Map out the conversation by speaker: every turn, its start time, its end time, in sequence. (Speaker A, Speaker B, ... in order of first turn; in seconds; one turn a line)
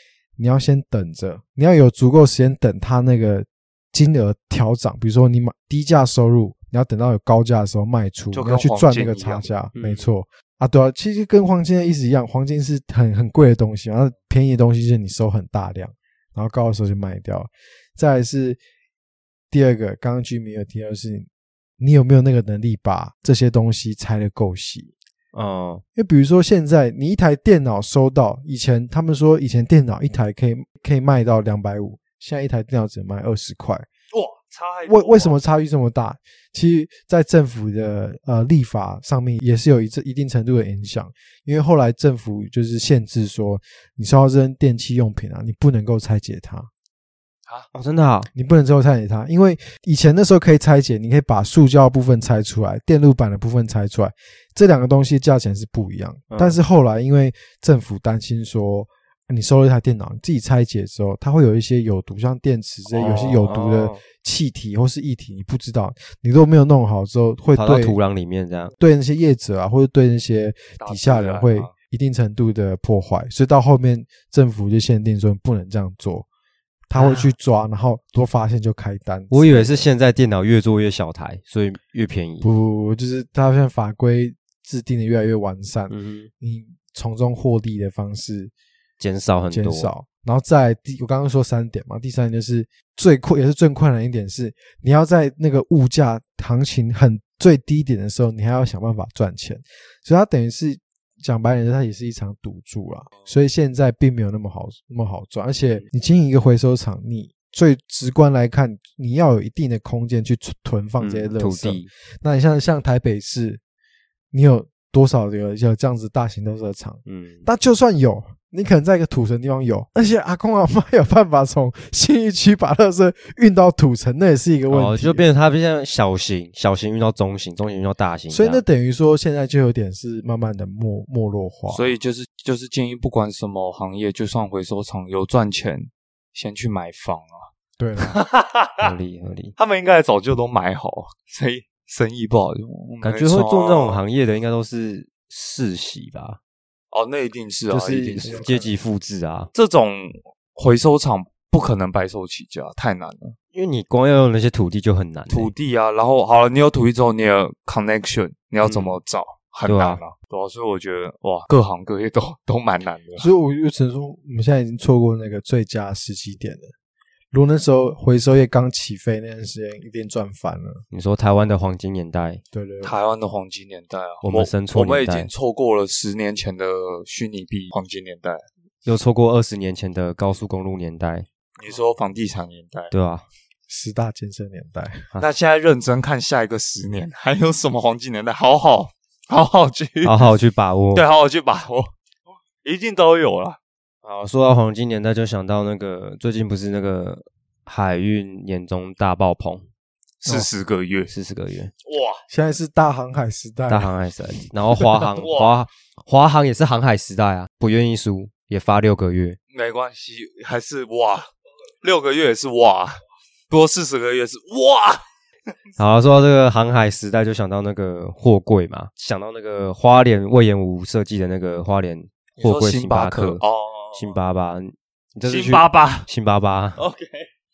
Speaker A: 0.4-18.6
Speaker B: 8.3-9.5
Speaker C: 9.8-10.1
Speaker A: 19.5-21.3
Speaker A: 21.8-24.9
Speaker C: 25.3-25.8
Speaker A: 26.0-33.9
Speaker B: 34.1-35.4
Speaker A: 34.9-46.7
Speaker C: 47.7-48.3
Speaker A: 48.4-68.0
Speaker C: 56.3-56.6
Speaker B: 62.9-63.5
Speaker C: 63.0-64.0
Speaker C: 67.5-68.7
Speaker A: 68.8-76.3
Speaker B: 70.8-71.7
Speaker A: 76.9-79.9
Speaker C: 77.0-77.3
Speaker C: 79.3-82.5
Speaker A: 82.4-88.5
Speaker C: 85.9-86.3
Speaker C: 89.0-89.9
Speaker A: 89.5-113.6
Speaker C: 111.0-111.9
Speaker A: 114.3-125.3
Speaker C: 117.1-117.5
Speaker C: 124.7-128.6
Speaker A: 128.3-131.9
Speaker B: 131.7-137.5
Speaker A: 137.8-138.2
Speaker B: 138.0-138.9
Speaker C: 138.8-139.6
Speaker B: 139.6-144.0
Speaker C: 143.0-146.4
Speaker B: 146.9-148.5
Speaker C: 147.7-149.5
Speaker A: 148.2-148.8
Speaker B: 149.5-153.4
Speaker C: 153.5-155.5
Speaker B: 155.3-163.3
Speaker C: 158.6-159.0
Speaker C: 159.7-160.0
Speaker A: 163.2-166.7
Speaker A: 167.3-170.8
Speaker C: 170.9-172.4
Speaker A: 172.5-172.9
Speaker B: 172.8-178.4
Speaker C: 174.2-175.3
Speaker C: 178.8-181.3
Speaker B: 181.6-182.9
Speaker C: 182.9-183.2
Speaker A: 183.7-185.1
Speaker B: 185.2-190.3
Speaker C: 190.0-191.1
Speaker B: 190.9-191.9
Speaker B: 192.6-193.6
Speaker C: 194.0-199.7
Speaker B: 200.2-201.1
Speaker C: 201.1-201.7
Speaker B: 201.8-202.2
Speaker A: 202.3-203.9
Speaker C: 203.7-209.4
Speaker B: 205.1-205.6
Speaker B: 209.5-211.3
Speaker B: 211.8-213.0
Speaker B: 213.5-215.0
Speaker C: 215.8-223.4
Speaker B: 222.4-224.2
Speaker C: 223.9-226.8
Speaker B: 225.3-226.1
Speaker B: 226.8-227.3